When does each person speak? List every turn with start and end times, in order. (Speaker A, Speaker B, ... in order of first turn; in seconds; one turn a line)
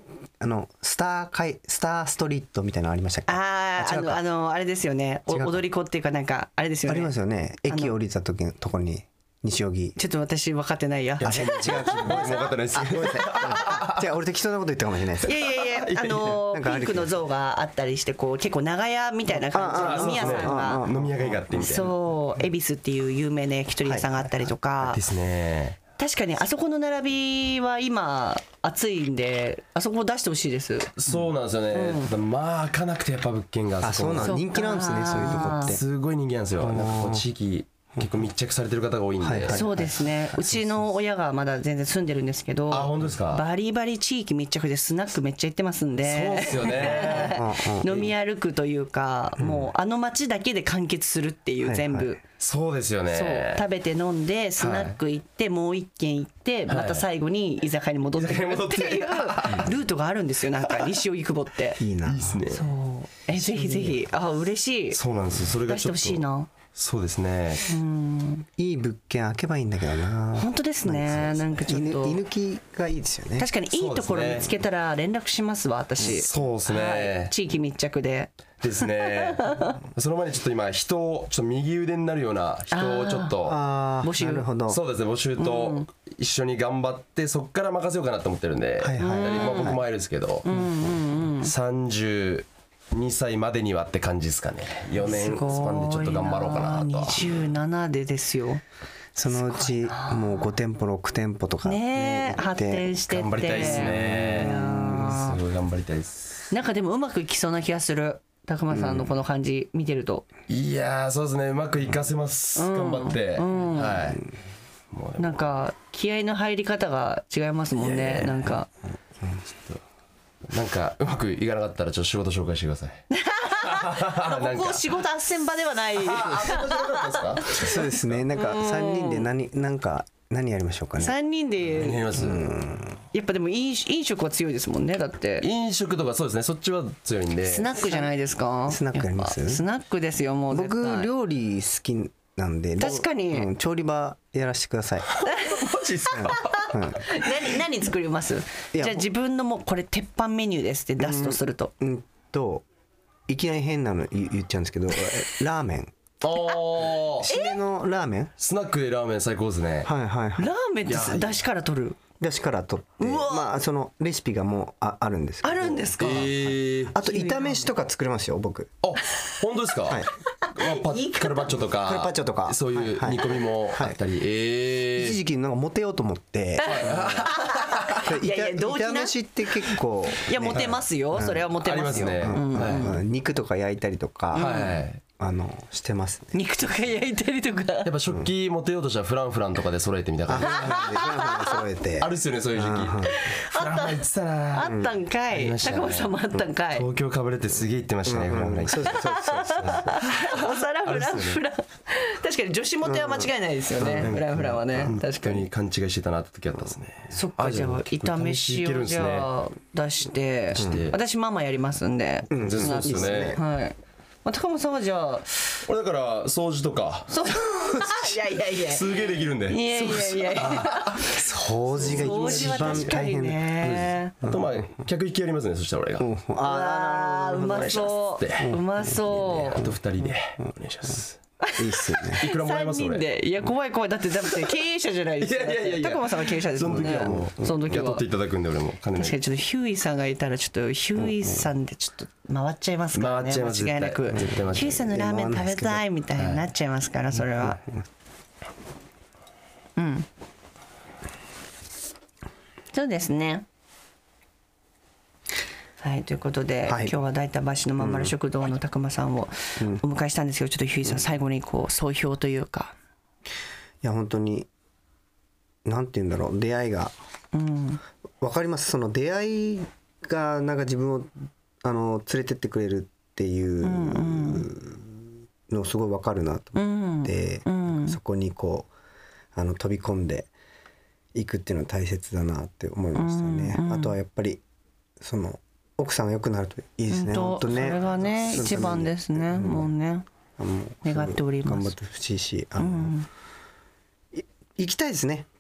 Speaker A: 0.4-4.2
Speaker B: 3.3-7.1
Speaker A: 5.3-5.6
Speaker A: 6.9-10.0
Speaker B: 7.7-7.9
Speaker B: 10.0-12.3
Speaker C: 11.2-14.0
Speaker A: 11.2-15.3
Speaker B: 15.2-20.9
Speaker C: 15.8-16.4
Speaker A: 16.3-17.2
Speaker A: 19.4-21.7
Speaker C: 19.7-21.9
Speaker B: 21.5-25.0
Speaker A: 23.9-24.4
Speaker C: 24.8-25.8
Speaker B: 26.0-30.9
Speaker C: 31.0-34.4
Speaker B: 31.7-32.1
Speaker A: 33.8-35.8
Speaker B: 34.2-35.8
Speaker C: 35.1-39.7
Speaker A: 36.6-37.2
Speaker A: 39.2-40.9
Speaker B: 39.5-52.2
Speaker C: 42.7-43.4
Speaker C: 46.0-48.0
Speaker A: 46.9-48.0
Speaker A: 49.4-49.7
Speaker A: 51.6-52.1
Speaker C: 52.4-53.6
Speaker B: 53.1-61.8
Speaker C: 54.6-55.0
Speaker C: 56.7-57.1
Speaker C: 58.2-59.7
Speaker A: 61.8-62.4
Speaker C: 62.1-62.7
Speaker B: 62.5-65.0
Speaker C: 63.6-63.9
Speaker C: 64.9-67.7
Speaker B: 65.7-66.5
Speaker B: 67.7-68.5
Speaker A: 68.6-73.5
Speaker B: 70.4-72.2
Speaker B: 73.4-79.8
Speaker C: 73.7-74.5
Speaker C: 76.0-77.3
Speaker C: 78.6-83.6
Speaker B: 82.7-83.3
Speaker A: 83.4-84.8
Speaker B: 84.0-84.5
Speaker C: 84.7-90.6
Speaker B: 85.4-85.9
Speaker A: 88.8-89.8
Speaker B: 89.0-89.8
Speaker B: 90.5-91.5
Speaker C: 91.4-97.2
Speaker B: 95.0-98.6
Speaker A: 99.2-105.2
Speaker B: 99.5-100.5
Speaker B: 101.6-105.4
Speaker C: 103.1-106.5
Speaker B: 106.5-110.3
Speaker A: 108.7-109.1
Speaker C: 110.5-114.2
Speaker B: 112.6-114.1
Speaker C: 114.9-115.5
Speaker B: 115.2-118.7
Speaker C: 117.8-118.5
Speaker C: 120.5-123.1
Speaker B: 123.1-127.8
Speaker C: 123.6-125.0
Speaker C: 125.9-128.2
Speaker A: 127.5-131.2
Speaker B: 128.4-129.3
Speaker B: 131.0-132.1
Speaker C: 131.7-132.6
Speaker A: 132.1-133.0
Speaker B: 133.1-135.5
Speaker C: 135.4-137.9
Speaker B: 137.4-141.1
Speaker A: 138.7-139.6
Speaker A: 140.5-145.1
Speaker B: 142.8-143.5
Speaker C: 145.1-146.7
Speaker B: 145.3-145.6
Speaker A: 146.1-147.1
Speaker B: 146.2-151.7
Speaker A: 148.7-149.1
Speaker A: 151.0-152.7
Speaker A: 153.3-155.9
Speaker C: 156.2-157.3
Speaker A: 157.2-158.3
Speaker B: 157.3-157.6
Speaker C: 158.4-159.9
Speaker A: 159.8-160.5
Speaker B: 160.4-162.0
Speaker C: 160.9-161.4
Speaker A: 162.2-168.7
Speaker B: 163.0-163.5
Speaker B: 165.4-166.3
Speaker C: 166.0-166.9
Speaker B: 167.0-167.7
Speaker C: 168.8-175.2
Speaker B: 170.4-171.6
Speaker A: 171.8-174.0
Speaker A: 174.9-177.3
Speaker C: 176.6-178.0
Speaker B: 176.6-179.2
Speaker A: 178.0-186.3
Speaker B: 180.2-183.0
Speaker C: 181.6-182.8
Speaker B: 184.3-184.8
Speaker C: 184.3-185.0
Speaker B: 186.3-187.9
Speaker C: 187.8-190.8
Speaker A: 190.3-193.1
Speaker B: 190.5-191.3
Speaker C: 192.0-194.8
Speaker B: 193.1-196.9
Speaker A: 194.6-194.9
Speaker C: 195.3-196.1
Speaker C: 196.7-201.4
Speaker A: 198.1-199.9
Speaker B: 198.9-205.5
Speaker A: 202.8-204.9
Speaker C: 204.0-209.3
Speaker B: 207.1-215.3
Speaker C: 210.5-211.0
Speaker A: 210.6-210.9
Speaker C: 212.3-213.4
Speaker A: 212.3-213.4
Speaker C: 215.7-217.2
Speaker B: 217.1-221.1
Speaker C: 218.7-223.0
Speaker A: 221.0-223.5
Speaker B: 221.8-224.1
Speaker C: 223.6-226.1
Speaker A: 226.0-229.8
Speaker B: 226.4-229.6
Speaker C: 227.5-228.6
Speaker C: 229.1-231.2
Speaker B: 231.4-238.0
Speaker A: 231.6-232.2
Speaker C: 232.2-233.1
Speaker C: 235.2-239.2
Speaker A: 236.7-237.6
Speaker B: 239.0-247.6
Speaker A: 241.0-241.5
Speaker C: 242.9-244.9
Speaker A: 244.6-245.8
Speaker C: 246.2-246.5
Speaker A: 247.3-247.8
Speaker B: 249.8-250.1
Speaker B: 252.7-253.4
Speaker B: 255.8-262.7
Speaker A: 256.6-256.9
Speaker A: 257.8-258.1
Speaker A: 263.8-264.5
Speaker A: 265.6-266.9
Speaker B: 267.3-267.8
Speaker A: 268.2-271.1
Speaker A: 271.6-278.7
Speaker B: 273.6-274.5
Speaker B: 276.6-278.0
Speaker A: 279.4-280.3
Speaker A: 281.1-284.4
Speaker B: 283.0-283.9
Speaker A: 285.0-289.7
Speaker B: 286.9-290.1
Speaker A: 290.4-293.0
Speaker B: 290.8-291.7
Speaker B: 292.6-293.1
Speaker A: 294.1-295.3